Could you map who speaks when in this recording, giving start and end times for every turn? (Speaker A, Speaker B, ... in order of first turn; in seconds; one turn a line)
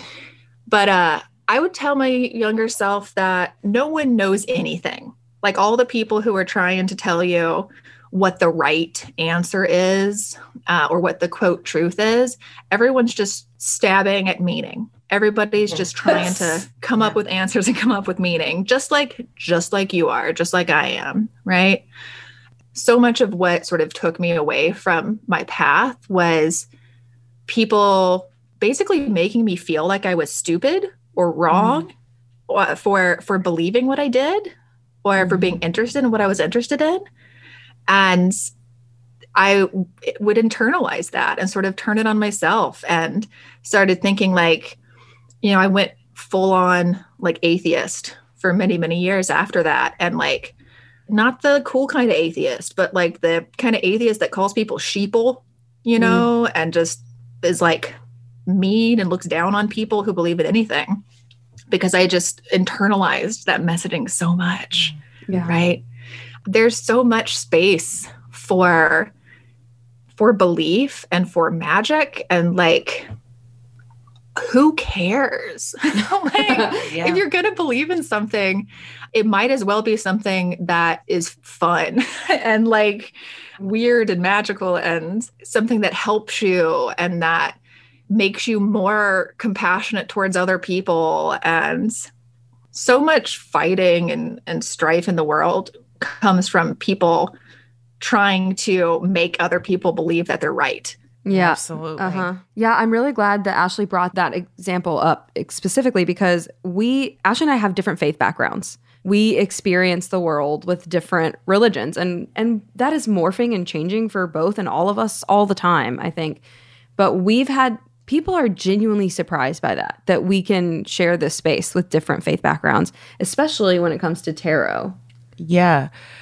Speaker A: 0.7-21.8
Speaker B: 16.3-16.6
Speaker A: 22.7-26.7
Speaker A: 27.5-31.9
Speaker B: 31.5-31.8
Speaker A: 32.5-34.5
Speaker A: 35.0-37.0
Speaker B: 35.2-35.5
Speaker A: 37.9-38.5
Speaker A: 39.3-44.8
Speaker A: 45.4-50.5
Speaker A: 51.1-58.0
Speaker B: 56.0-56.2
Speaker A: 58.5-61.0
Speaker A: 61.7-64.9
Speaker B: 65.3-65.6
Speaker A: 65.5-65.8
Speaker A: 66.5-69.1
Speaker A: 70.1-73.1
Speaker A: 74.3-87.6
Speaker B: 76.4-76.7
Speaker C: 76.7-77.2
Speaker A: 88.1-92.1
Speaker A: 92.7-97.3
Speaker A: 98.0-101.0
Speaker B: 101.2-116.4
Speaker C: 101.3-102.3
Speaker B: 117.0-125.0
Speaker C: 125.4-125.9